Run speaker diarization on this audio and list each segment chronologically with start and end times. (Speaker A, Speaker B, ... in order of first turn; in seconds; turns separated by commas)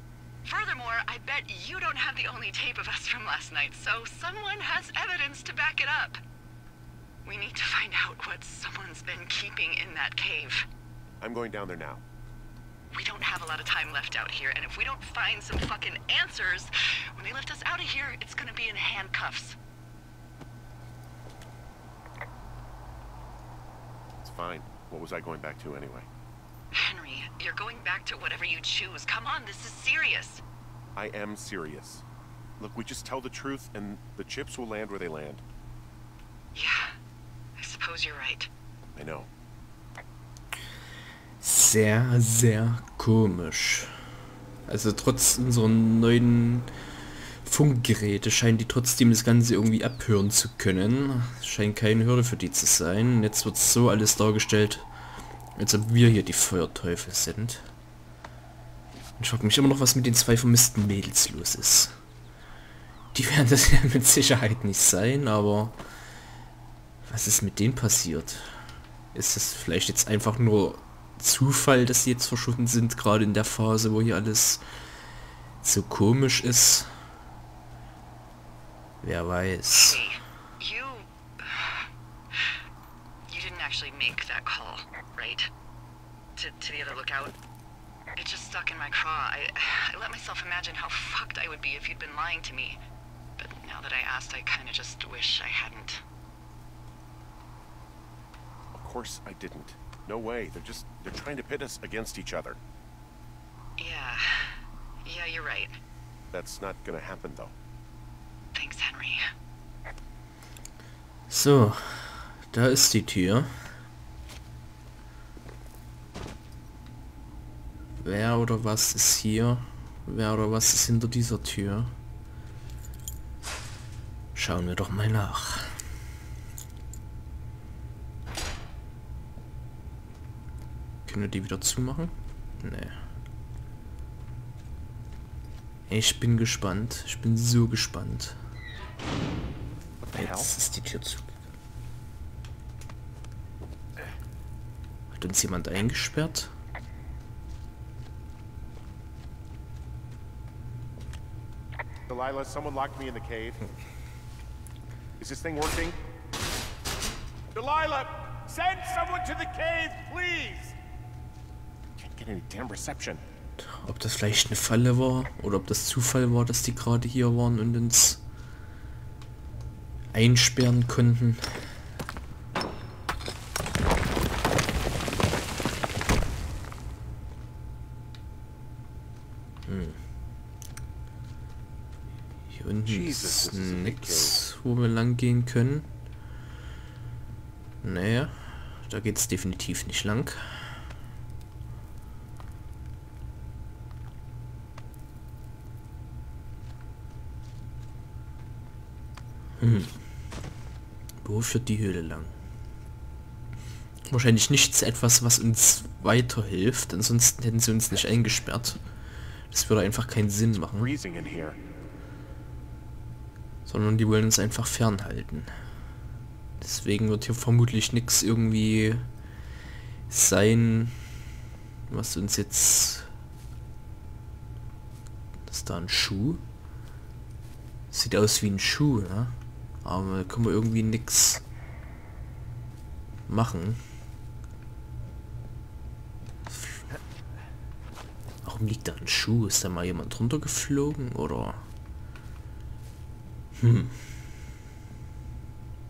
Speaker A: 0.5-6.2, Speaker A: 7.2-10.7, Speaker B: 11.2-12.0, Speaker A: 12.9-19.6, Speaker B: 24.2-26.1, Speaker A: 26.7-30.4, Speaker B: 31.0-32.0, Speaker B: 32.6-35.4, Speaker A: 36.5-37.0, Speaker A: 37.6-38.5, Speaker B: 39.0-39.3, Speaker C: 41.4-43.9, Speaker C: 44.7-46.7, Speaker C: 47.4-54.9, Speaker C: 55.6-57.6, Speaker C: 59.2-62.0, Speaker C: 63.1-65.8, Speaker C: 67.1-68.6, Speaker C: 69.1-74.6, Speaker C: 75.6-76.9, Speaker C: 79.0-80.0, Speaker A: 79.7-82.6, Speaker A: 83.3-85.5, Speaker A: 86.4-87.3, Speaker A: 88.2-92.8, Speaker A: 93.4-96.0, Speaker B: 98.8-102.6, Speaker A: 103.8-105.8, Speaker B: 106.3-107.5, Speaker A: 108.5-109.2, Speaker C: 111.3-113.5, Speaker C: 118.0-121.9, Speaker C: 124.3-125.8, Speaker C: 131.1-133.0, Speaker C: 135.9-138.4, Speaker B: 140.1-140.5, Speaker C: 140.1-141.3, Speaker C: 145.1-146.5, Speaker B: 152.1-153.6, Speaker B: 155.2-156.0, Speaker B: 157.5-160.8, Speaker B: 162.0-163.2, Speaker C: 163.6-168.2, Speaker C: 170.1-171.7, Speaker C: 179.7-180.0, Speaker C: 182.5-185.9, Speaker B: 182.9-184.4, Speaker C: 187.8-190.8, Speaker C: 199.6-200.0, Speaker C: 201.2-202.3, Speaker C: 204.1-208.8, Speaker C: 209.5-210.9, Speaker B: 210.7-211.6, Speaker C: 213.7-215.5, Speaker C: 216.6-219.1, Speaker C: 220.1-221.0, Speaker C: 221.9-223.1, Speaker C: 225.5-226.4, Speaker C: 227.9-231.4, Speaker C: 233.3-233.8, Speaker C: 236.5-236.8, Speaker C: 238.4-241.7, Speaker C: 243.6-244.0